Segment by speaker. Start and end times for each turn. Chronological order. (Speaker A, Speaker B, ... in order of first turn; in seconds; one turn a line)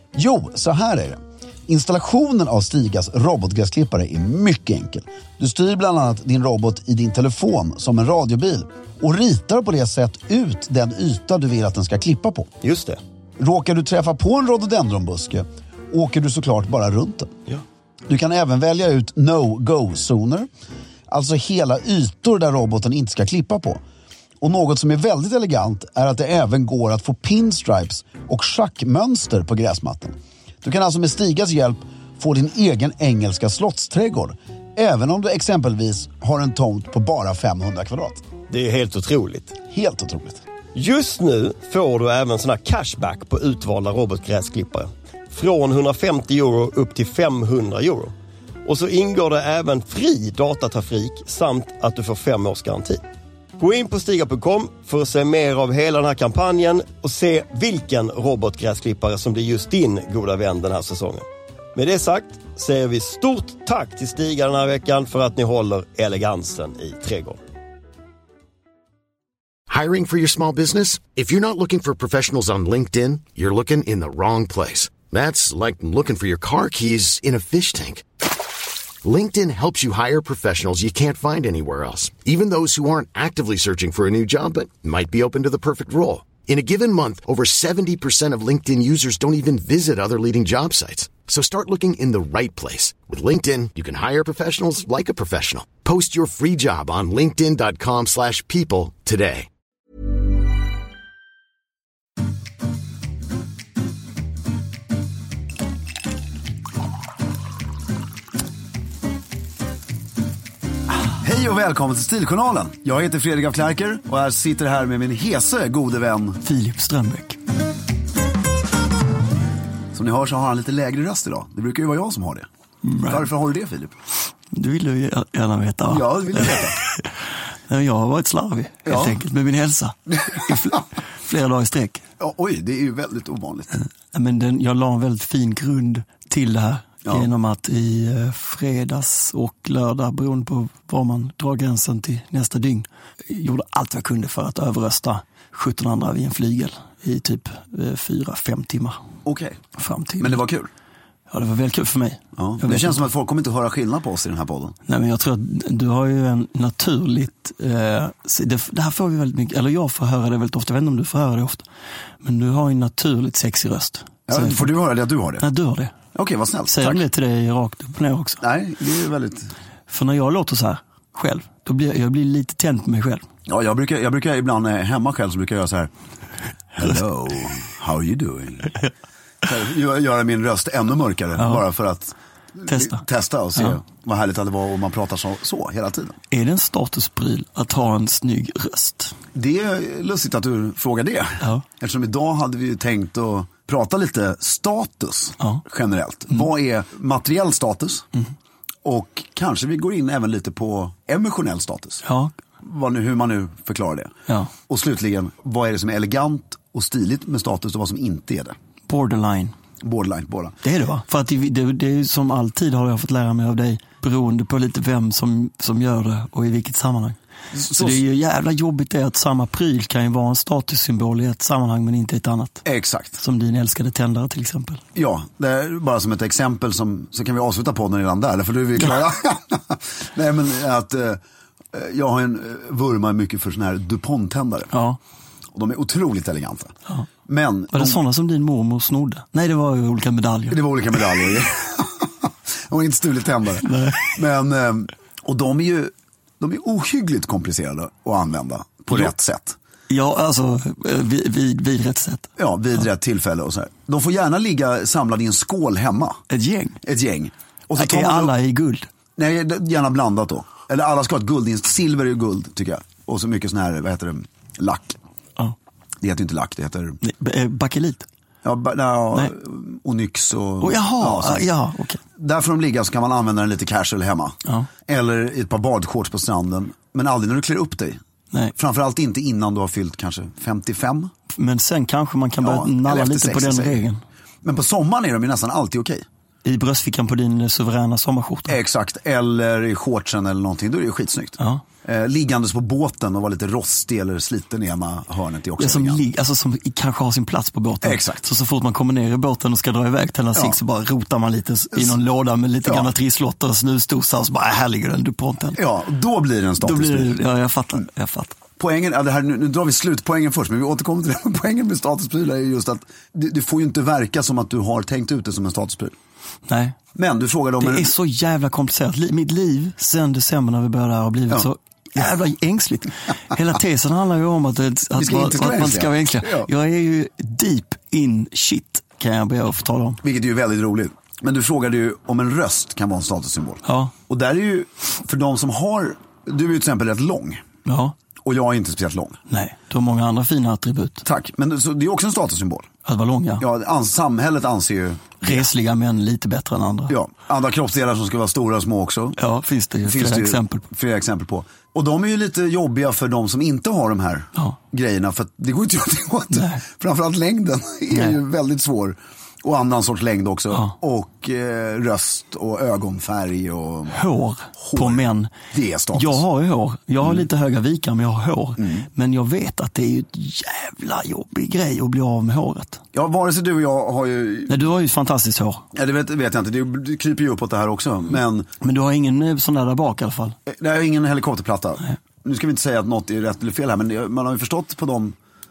Speaker A: 0.1-12.5
Speaker B: 12.6-13.0
Speaker A: 13.4-17.3
Speaker A: 18.1-20.5
Speaker A: 21.1-23.8
Speaker A: 24.4-38.2
Speaker B: 38.5-39.5
Speaker A: 39.7-40.4
Speaker B: 40.8-48.1
Speaker B: 48.7-53.0
Speaker B: 53.6-67.4
Speaker C: 69.7-78.0
Speaker C: 79.0-99.5
Speaker A: 111.0-116.4
Speaker D: 116.4-117.4
Speaker A: 119.9-122.5
Speaker D: 122.8-123.3
Speaker A: 123.0-123.9
Speaker D: 124.5-127.1
Speaker A: 125.9-126.8
Speaker D: 127.7-132.0
Speaker A: 128.8-129.2
Speaker A: 132.2-133.8
Speaker D: 133.7-149.0
Speaker A: 149.2-149.6
Speaker D: 149.8-150.4
Speaker A: 150.2-150.7
Speaker D: 151.3-153.0
Speaker A: 152.4-154.8
Speaker D: 154.9-161.7
Speaker D: 162.2-164.8
Speaker A: 164.3-165.5
Speaker D: 165.4-165.9
Speaker A: 166.1-167.0
Speaker D: 166.7-168.4
Speaker A: 168.4-169.5
Speaker D: 169.9-173.3
Speaker A: 173.5-175.9
Speaker A: 176.8-178.8
Speaker A: 179.4-186.2
Speaker D: 181.4-181.7
Speaker D: 182.7-183.0
Speaker D: 186.3-189.2
Speaker A: 189.3-198.1
Speaker A: 198.8-202.0
Speaker D: 202.0-202.3
Speaker A: 202.6-204.1
Speaker A: 204.7-208.6
Speaker D: 208.9-209.6
Speaker A: 209.8-210.6
Speaker D: 210.6-217.2
Speaker A: 217.5-218.0
Speaker D: 217.7-222.6
Speaker A: 222.7-223.2
Speaker D: 223.2-224.8
Speaker A: 224.9-231.2
Speaker A: 231.7-234.7
Speaker D: 234.7-235.0
Speaker A: 235.5-236.7
Speaker A: 237.3-238.0
Speaker D: 237.7-240.6
Speaker A: 240.5-249.6
Speaker D: 243.6-244.2
Speaker D: 249.9-252.3
Speaker A: 252.4-256.2
Speaker D: 256.3-256.8
Speaker A: 256.8-258.3
Speaker D: 257.8-258.9
Speaker A: 259.2-265.0
Speaker A: 266.0-267.0
Speaker D: 267.0-268.1
Speaker A: 268.4-271.5
Speaker D: 270.6-272.0
Speaker A: 272.2-278.0
Speaker A: 278.6-281.1
Speaker D: 281.3-284.0
Speaker A: 282.4-283.8
Speaker A: 284.4-286.1
Speaker D: 286.4-288.6
Speaker A: 288.5-296.0
Speaker D: 291.4-291.6
Speaker D: 295.6-305.6
Speaker A: 297.8-298.3
Speaker A: 302.6-302.9
Speaker A: 305.6-307.2
Speaker D: 306.6-308.4
Speaker A: 308.6-315.9
Speaker D: 316.5-316.8
Speaker A: 316.9-317.9
Speaker D: 317.6-330.0
Speaker A: 324.9-326.5
Speaker A: 330.0-337.4
Speaker D: 333.6-333.9
Speaker D: 337.6-337.9
Speaker A: 338.2-339.2
Speaker D: 339.3-341.0
Speaker A: 341.0-342.7
Speaker D: 342.9-343.4
Speaker A: 343.4-345.4
Speaker D: 345.2-346.9
Speaker A: 346.9-349.2
Speaker D: 349.2-350.7
Speaker A: 349.8-364.0
Speaker D: 356.3-356.6
Speaker D: 357.9-358.2
Speaker D: 363.9-365.3
Speaker A: 364.6-366.2
Speaker D: 365.9-372.8
Speaker A: 368.6-368.9
Speaker A: 372.9-374.6
Speaker D: 374.5-375.6
Speaker A: 375.7-378.5
Speaker D: 378.6-380.4
Speaker A: 380.5-385.1